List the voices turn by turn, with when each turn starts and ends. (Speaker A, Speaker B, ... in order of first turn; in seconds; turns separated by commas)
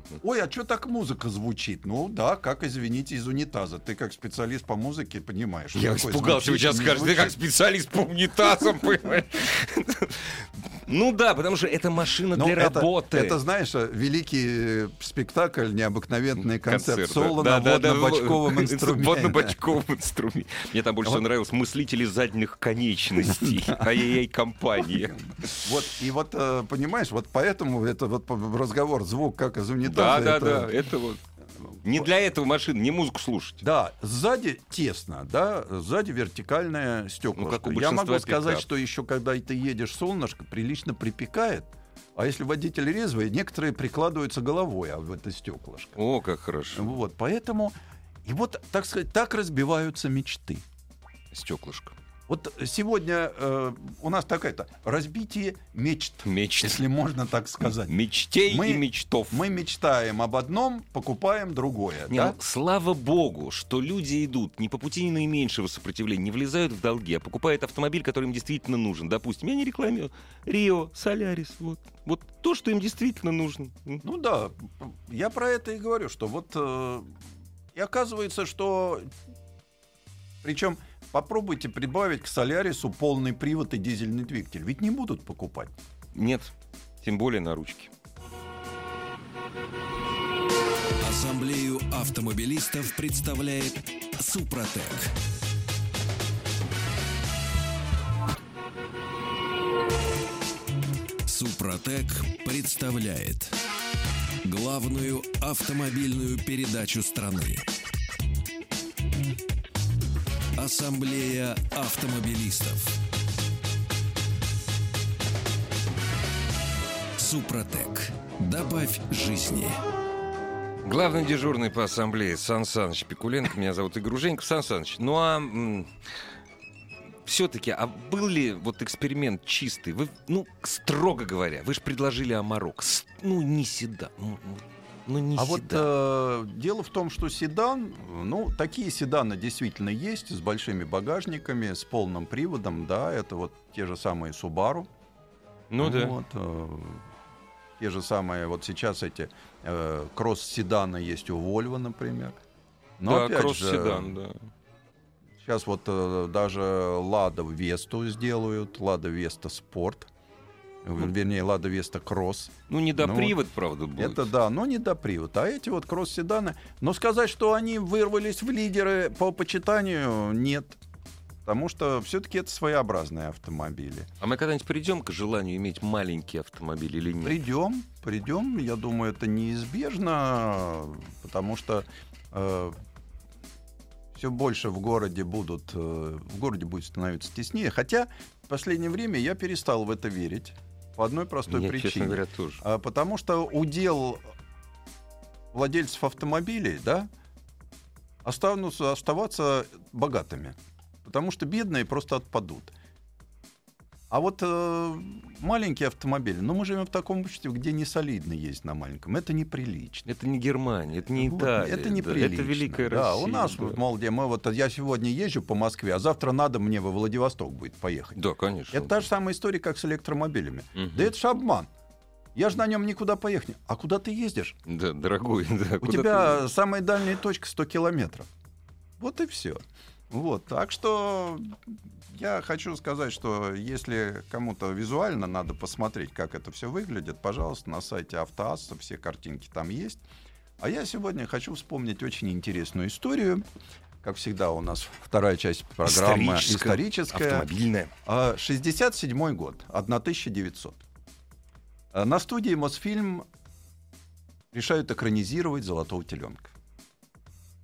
Speaker A: 0.2-7.4, Speaker B: 5.7-13.4, Speaker A: 12.3-19.6, Speaker B: 16.6-25.6, Speaker A: 23.2-24.1, Speaker A: 24.8-30.7, Speaker B: 29.8-31.2, Speaker B: 31.8-33.6, Speaker A: 33.6-46.0, Speaker B: 37.4-38.6, Speaker B: 46.0-46.9, Speaker A: 46.7-47.7, Speaker A: 48.2-50.6, Speaker B: 51.3-51.9, Speaker A: 52.3-62.4, Speaker B: 56.2-56.8, Speaker B: 57.7-59.4, Speaker B: 62.1-74.0, Speaker A: 74.0-77.1, Speaker A: 77.7-79.1, Speaker A: 80.4-85.7, Speaker B: 86.1-87.9, Speaker C: 91.0-95.1, Speaker C: 101.2-103.5, Speaker C: 104.4-107.7, Speaker C: 110.5-112.9, Speaker C: 117.2-119.8, Speaker B: 120.8-125.9, Speaker B: 127.2-135.9, Speaker A: 135.3-144.9, Speaker B: 145.7-146.2, Speaker A: 145.8-147.0, Speaker A: 147.8-152.4, Speaker A: 153.0-154.1, Speaker B: 153.1-154.4, Speaker A: 155.4-160.1, Speaker A: 160.8-163.3, Speaker B: 162.7-164.3, Speaker A: 164.0-170.8, Speaker A: 171.4-174.1, Speaker B: 174.2-177.4, Speaker A: 177.2-182.8, Speaker A: 184.1-194.2, Speaker B: 191.5-192.6, Speaker A: 195.5-197.1, Speaker A: 198.2-202.7, Speaker A: 204.1-210.1, Speaker B: 210.1-213.8, Speaker A: 211.1-218.2, Speaker B: 218.2-219.1, Speaker A: 218.7-221.7, Speaker B: 220.8-221.1, Speaker A: 222.3-224.6, Speaker B: 224.7-226.4, Speaker A: 225.8-228.3, Speaker A: 229.0-240.0, Speaker A: 240.6-243.4, Speaker A: 244.0-247.5, Speaker B: 245.8-247.9, Speaker A: 248.1-250.8, Speaker A: 251.9-253.3, Speaker A: 254.5-256.5